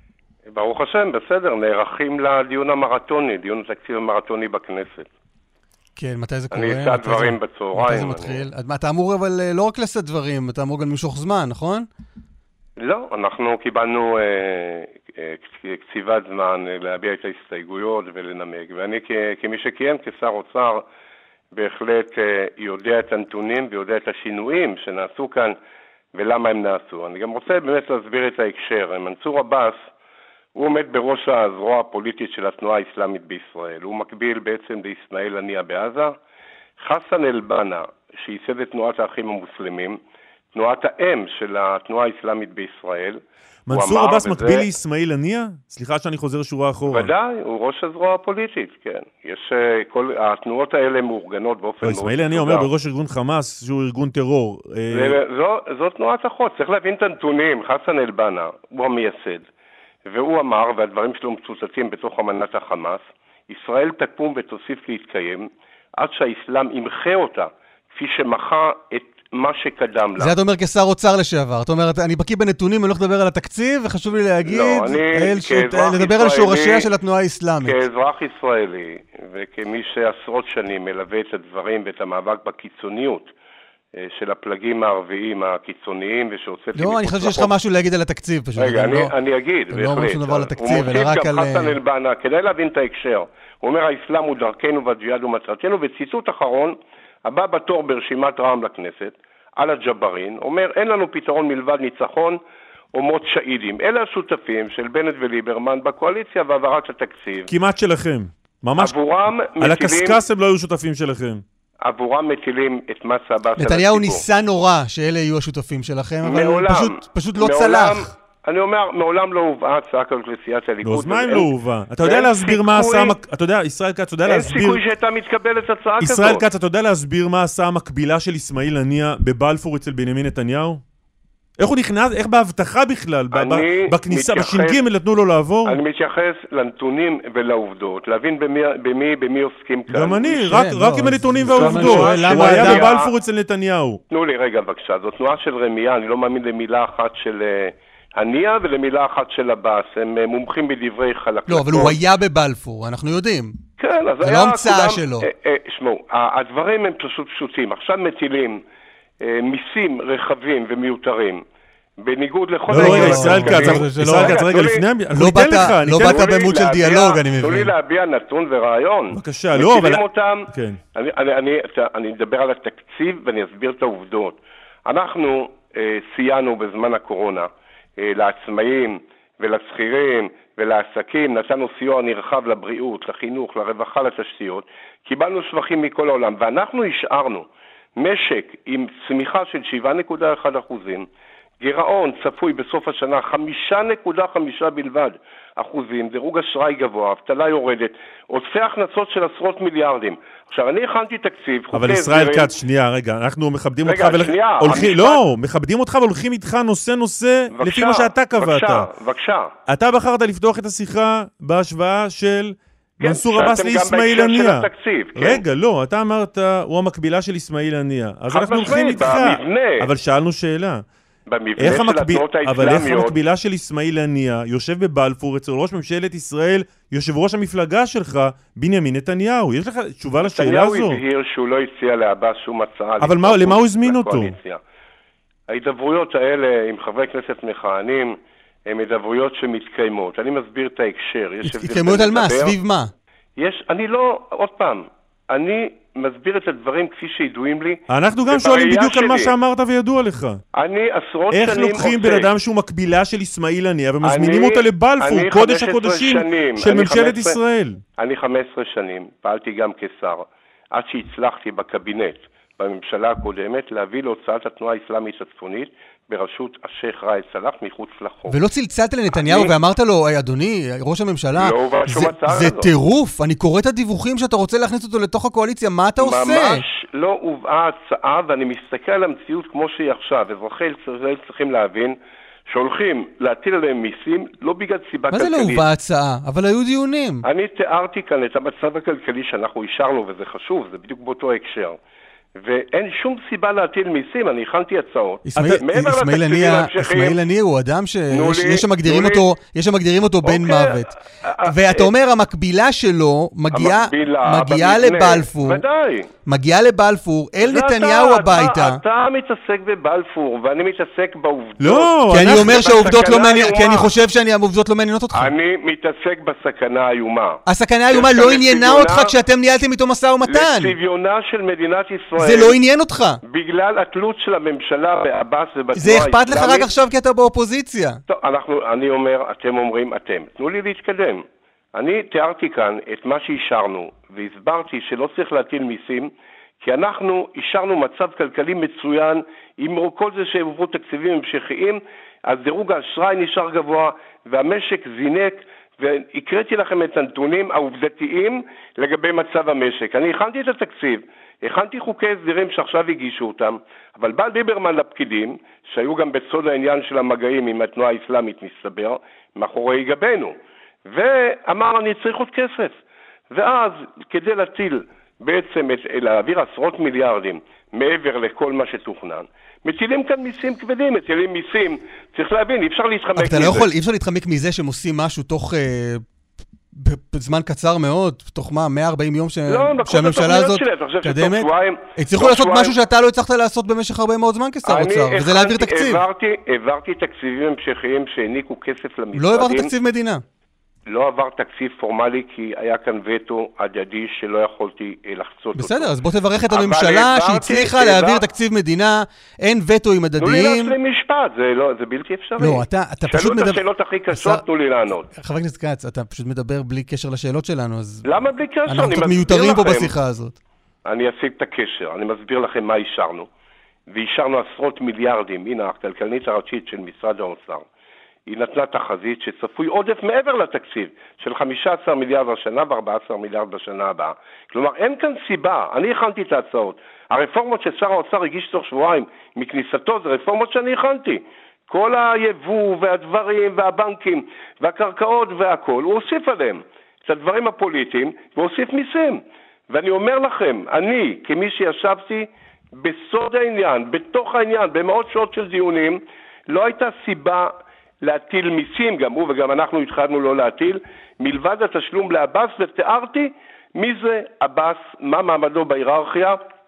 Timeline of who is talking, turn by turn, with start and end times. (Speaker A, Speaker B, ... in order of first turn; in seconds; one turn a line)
Speaker A: 0.5-5.1
Speaker B: 6.0-11.9
Speaker A: 6.5-8.4
Speaker A: 12.8-20.8
Speaker A: 21.5-25.6
Speaker A: 26.1-29.8
Speaker A: 30.6-36.1
Speaker A: 36.8-40.0
Speaker A: 40.5-44.7
Speaker C: 43.7-47.1
Speaker A: 46.9-52.7
Speaker C: 51.8-55.2
Speaker A: 54.9-59.5
Speaker A: 60.1-70.4
Speaker B: 70.2-77.8
Speaker A: 74.5-76.9
Speaker A: 77.6-83.3
Speaker A: 83.9-87.5
Speaker B: 86.8-89.1
Speaker A: 88.6-102.4
Speaker B: 89.7-91.8
Speaker A: 102.9-107.5
Speaker C: 107.5-109.0
Speaker A: 108.8-110.2
Speaker C: 109.6-111.4
Speaker A: 111.8-114.2
Speaker B: 113.6-118.1
Speaker A: 116.2-123.2
Speaker C: 120.8-124.8
Speaker A: 124.2-126.4
Speaker C: 126.0-130.8
Speaker C: 131.6-135.8
Speaker A: 133.3-134.8
Speaker A: 135.7-140.6
Speaker C: 139.9-144.0
Speaker B: 140.4-142.9
Speaker A: 141.5-143.1
Speaker A: 144.1-152.0
Speaker B: 151.5-153.6
Speaker A: 153.8-158.6
Speaker B: 154.2-155.3
Speaker A: 159.2-161.4
Speaker A: 162.0-164.8
Speaker C: 162.7-166.4
Speaker B: 162.7-164.4
Speaker B: 165.1-167.7
Speaker A: 165.9-191.1
Speaker C: 169.1-170.8
Speaker A: 191.6-202.5
Speaker C: 201.7-208.9
Speaker A: 203.8-205.2
Speaker A: 207.5-209.5
Speaker C: 209.7-220.8
Speaker A: 213.0-215.4
Speaker A: 218.3-219.9
Speaker A: 221.3-223.2
Speaker C: 221.6-231.0
Speaker A: 230.2-234.6
Speaker C: 233.0-234.3
Speaker A: 235.5-242.6
Speaker B: 241.4-242.9
Speaker A: 243.4-249.3
Speaker C: 247.9-250.4
Speaker A: 250.5-252.3
Speaker C: 251.3-257.8
Speaker A: 254.0-257.4
Speaker A: 258.0-268.4
Speaker B: 268.3-276.6
Speaker A: 269.1-269.5
Speaker A: 271.4-272.7
Speaker A: 276.0-282.0
Speaker A: 282.5-285.6
Speaker B: 285.1-287.2
Speaker A: 287.2-291.8
Speaker A: 292.4-297.2
Speaker B: 295.2-300.9
Speaker A: 298.1-299.3
Speaker A: 300.2-301.9
Speaker B: 301.4-305.6
Speaker A: 303.5-306.1
Speaker B: 306.3-308.8
Speaker A: 307.4-313.9
Speaker C: 311.6-313.1
Speaker B: 312.1-315.3
Speaker A: 315.1-319.1
Speaker B: 317.5-320.8
Speaker A: 320.3-322.6
Speaker B: 322.2-323.2
Speaker A: 323.2-326.7
Speaker B: 325.7-328.0
Speaker A: 328.1-360.4
Speaker A: 360.9-362.8
Speaker A: 363.3-373.7
Speaker B: 373.2-376.0
Speaker B: 376.7-386.0
Speaker A: 379.5-382.8
Speaker A: 384.6-389.7
Speaker B: 389.1-390.2
Speaker A: 390.9-395.9
Speaker B: 395.6-400.8
Speaker A: 396.5-398.2
Speaker A: 400.2-405.1
Speaker B: 402.4-403.6
Speaker B: 404.1-404.4
Speaker B: 405.1-408.1
Speaker A: 408.1-409.9
Speaker B: 408.7-410.4
Speaker A: 410.9-413.3
Speaker A: 413.9-417.6
Speaker A: 418.3-456.4